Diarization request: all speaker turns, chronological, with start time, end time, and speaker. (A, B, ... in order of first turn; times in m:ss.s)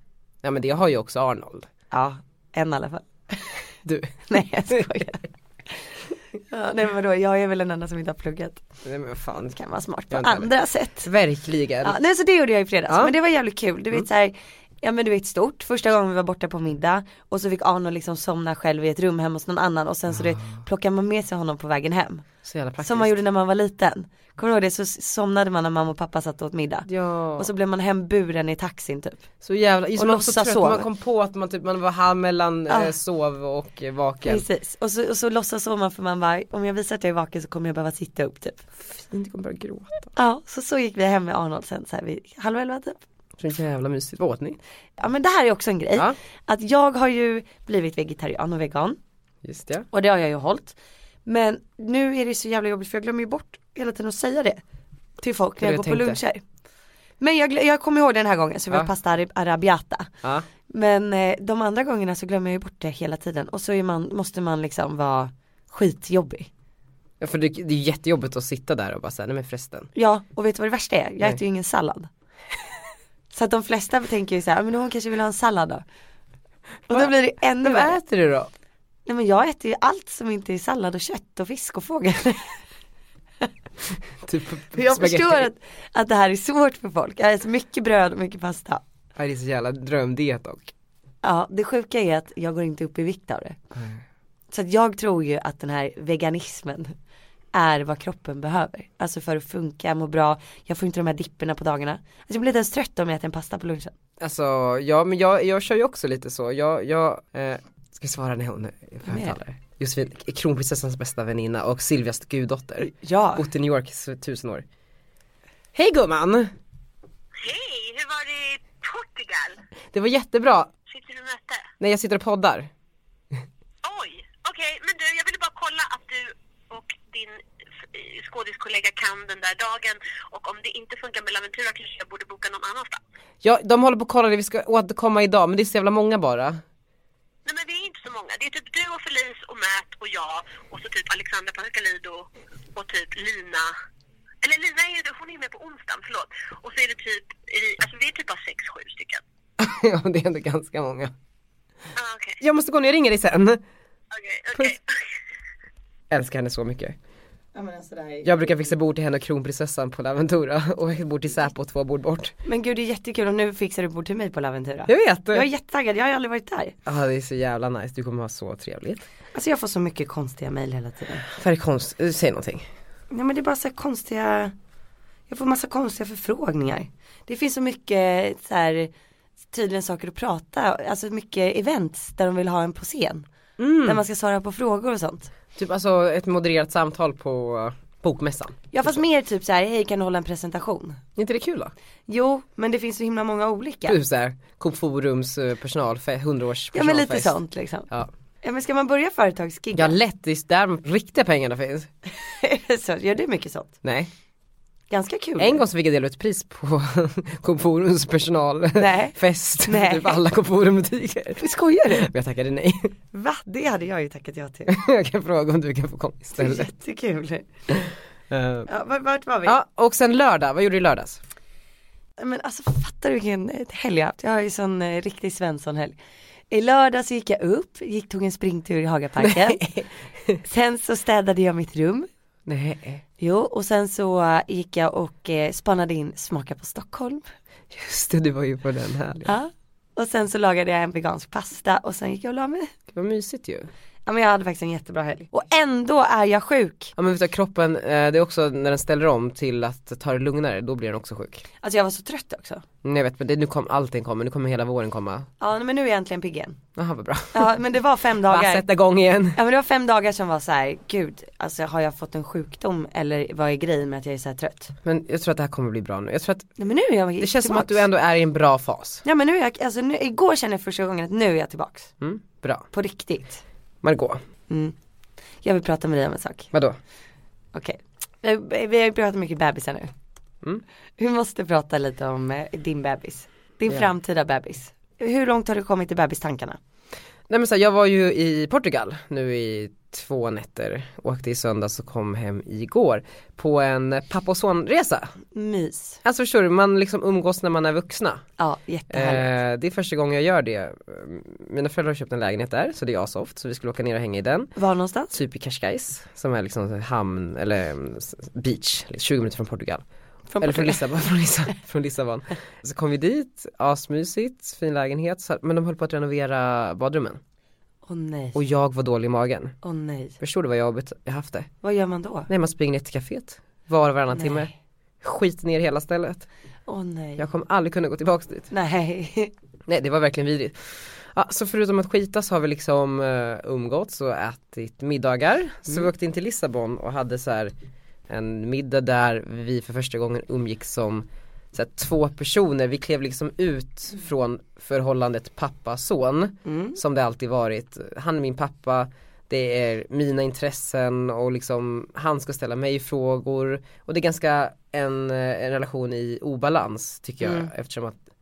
0:00.4-0:01.7 A
0:01.9-0:03.6 B
0:03.8-0:04.9 A
0:04.3-0:05.8 B
0:06.4-0:08.6 B
0:08.8-0:09.6 A
0:09.4-0:11.1 B
0:10.1-0:12.0 A
0:11.8-0:22.2 B
0:22.4-0:23.2 A
0:22.8-0:29.2 B
0:26.9-0:27.5 A
0:29.4-0:34.4 A
0:29.9-0:30.9 B
0:32.7-0:32.9 B
0:34.2-0:38.6 B
0:38.8-0:40.1 A
0:40.2-0:43.0 B
0:43.4-0:44.6 A
0:45.0-0:49.0 B
0:49.4-0:49.9 A
0:49.9-0:54.6 B
0:55.2-0:56.4 B
0:55.6-0:56.2 A
0:57.2-1:00.1 B
1:00.7-1:06.5 B
1:07.2-1:09.9 A
1:09.9-1:12.1 B
1:13.3-1:15.8 B
1:16.9-1:18.0 B
1:16.9-1:18.5 A
1:19.0-1:22.6 B
1:24.2-1:25.5 A
1:24.7-1:28.8 B
1:29.2-1:30.7 A
1:31.2-1:33.6 B
1:33.7-1:34.0 A
1:34.5-1:36.9 B
1:37.5-1:43.9 B
1:44.2-1:54.6 A
1:49.0-1:49.4 B
1:52.8-1:53.4 B
1:55.7-1:56.5 A
1:57.4-1:59.6 C
1:59.9-2:00.7 A
2:00.9-2:01.7 C
2:01.8-2:02.7 A
2:03.8-2:07.4 C
2:07.9-2:13.0 C
2:13.4-2:16.6 A
2:17.4-2:23.7 C
2:24.4-2:29.2 C
2:29.6-2:31.1 A
2:31.9-2:32.4 C
2:32.4-2:33.6 A
2:34.1-2:34.8 C
2:36.1-2:37.0 A
2:37.5-2:38.4 B
2:38.2-2:42.3 A
2:42.4-2:46.8 B
2:44.9-2:45.5 A
2:46.8-2:49.0 A
2:49.3-2:51.2 B
2:51.3-2:52.7 A
2:53.1-2:54.5 B
2:55.3-2:58.9 B
2:59.5-3:03.2 B
3:03.6-3:04.0 A
3:03.8-3:05.3 B
3:05.5-3:09.0 A
3:08.7-3:11.0 B
3:11.2-3:11.7 A
3:12.1-3:14.0 B
3:13.8-3:17.4 A
3:16.7-3:17.9 B
3:18.4-3:20.0 B
3:19.8-3:21.9 A
3:22.2-3:23.8 B
3:23.8-3:24.1 A
3:24.9-3:25.6 B
3:25.4-3:32.9 A
3:28.8-3:30.2 B
3:31.4-3:32.1 B
3:33.1-3:34.7 B
3:34.7-3:36.7 A
3:36.4-3:37.5 B
3:37.8-3:38.7 A
3:38.7-3:39.6 B
3:39.4-3:41.2 A
3:42.2-3:46.0 B
3:46.5-3:49.7 B
3:49.3-3:50.4 A
3:50.4-3:52.1 B
3:52.5-3:53.0 A
3:53.2-3:57.2 B
3:57.7-3:59.3 A
3:59.2-4:02.7 B
4:02.9-4:03.7 A
4:04.0-4:06.9 B
4:07.0-4:11.4 A
4:11.6-4:12.6 B
4:12.8-4:15.3 A
4:15.4-4:16.6 B
4:16.8-4:17.5 A
4:17.3-4:18.6 B
4:18.3-4:19.4 A
4:19.3-4:24.7 B
4:24.8-4:26.5 A
4:26.6-4:27.8 B
4:27.2-4:29.0 A
4:29.0-4:31.9 B
4:32.0-4:32.6 A
4:32.7-4:33.4 B
4:33.8-4:34.2 A
4:34.5-4:34.7 B
4:35.4-4:36.5 B
4:37.5-4:39.9 B
4:41.0-4:46.6 B
4:47.3-4:55.1 A
4:55.3-4:56.0 B
4:56.0-4:58.2 A
4:58.4-4:59.3 B
4:58.9-5:04.5 A
5:04.6-5:05.2 B
5:05.1-5:09.8 A
5:10.3-5:10.8 B
5:10.4-5:17.2 A
5:17.8-5:18.4 B
5:18.3-5:19.5 A
5:19.6-5:20.2 B
5:20.2-5:21.5 A
5:21.6-5:22.3 B
5:22.3-5:26.3 A
5:24.1-5:24.5 B
5:26.7-5:27.2 B
5:27.2-5:28.5 A
5:28.5-5:29.3 B
5:29.7-5:37.5 A
5:38.1-5:58.0 A
5:46.4-5:46.8 B
5:57.2-5:57.5 B